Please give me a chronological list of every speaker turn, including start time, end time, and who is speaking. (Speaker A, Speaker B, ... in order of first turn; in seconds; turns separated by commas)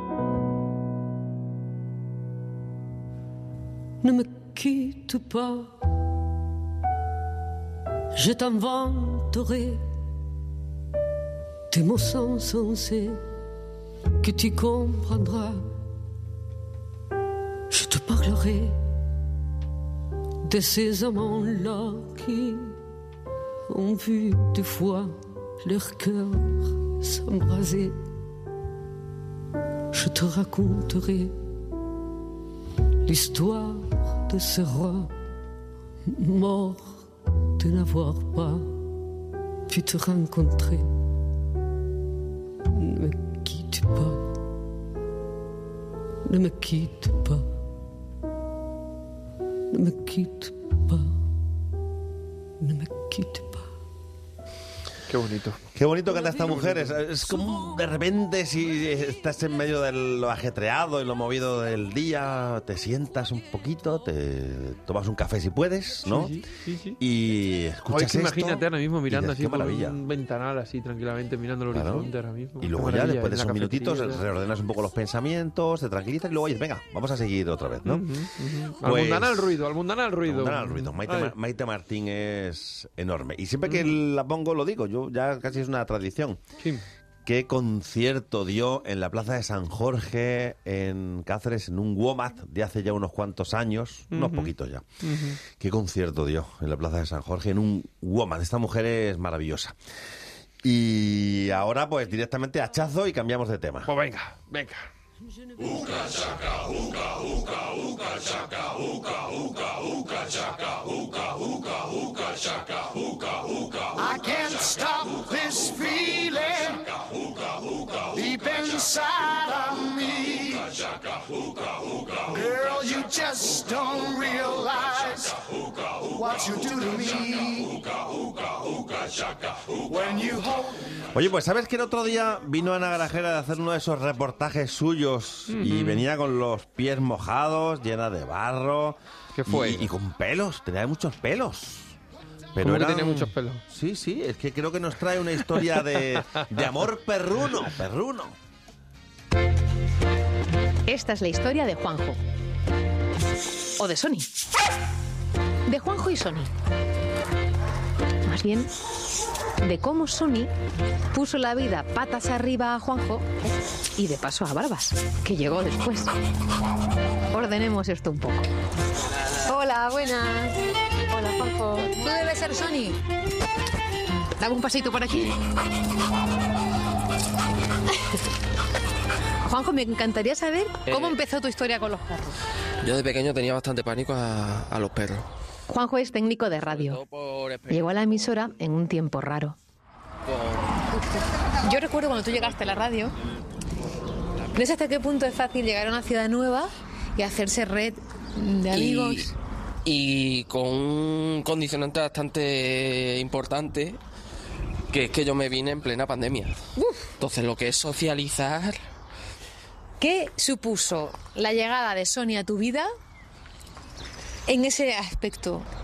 Speaker A: 4.0-5.9, Speaker A: 8.2-9.8, Speaker A: 11.7-13.2, Speaker A: 14.2-15.7, Speaker A: 17.7-18.8, Speaker A: 20.4-22.8, Speaker A: 23.7-28.0, Speaker A: 29.9-31.3, Speaker A: 33.0-35.1, Speaker A: 36.1-38.7, Speaker A: 39.7-40.9, Speaker A: 42.7-44.3, Speaker A: 46.3-47.5, Speaker A: 49.7-51.1, Speaker A: 52.6-53.7, Speaker B: 55.1-55.6, Speaker C: 55.8-66.4, Speaker B: 56.2-57.0, Speaker B: 66.0-67.0, Speaker C: 67.0-70.0, Speaker B: 67.9-74.2, Speaker C: 71.7-78.1, Speaker B: 77.8-81.3, Speaker C: 78.8-79.6, Speaker C: 80.2-86.4, Speaker B: 83.7-84.0, Speaker C: 87.3-94.9, Speaker B: 94.1-94.5, Speaker B: 95.0-95.4, Speaker C: 95.5-99.8, Speaker C: 100.6-103.9, Speaker B: 103.9-104.9, Speaker D: 114.0-116.9, Speaker D: 118.1-120.8, Speaker D: 122.3-125.4, Speaker D: 126.1-127.8, Speaker D: 129.9-130.9, Speaker C: 131.1-141.9, Speaker B: 135.5-136.1, Speaker B: 139.4-139.9, Speaker C: 142.6-148.4, Speaker B: 142.6-143.6, Speaker E: 150.9-152.2, Speaker E: 153.8-154.3, Speaker E: 155.7-156.5, Speaker E: 158.3-158.7, Speaker E: 159.6-160.5, Speaker E: 161.1-163.3, Speaker E: 164.0-166.1, Speaker E: 167.3-168.5, Speaker E: 169.5-170.6, Speaker E: 171.1-173.0, Speaker E: 174.4-175.4, Speaker E: 179.4-182.3, Speaker F: 180.9-181.2, Speaker F: 182.8-185.3, Speaker E: 185.7-187.0, Speaker F: 186.6-188.3, Speaker E: 187.7-189.6, Speaker F: 190.2-190.8, Speaker E: 191.1-193.1, Speaker E: 194.5-199.3, Speaker F: 198.7-199.3, Speaker F: 199.8-204.0, Speaker F: 204.9-206.6, Speaker E: 206.8-207.1, Speaker F: 207.2-208.8, Speaker E: 210.0-212.9, Speaker E: 214.5-215.7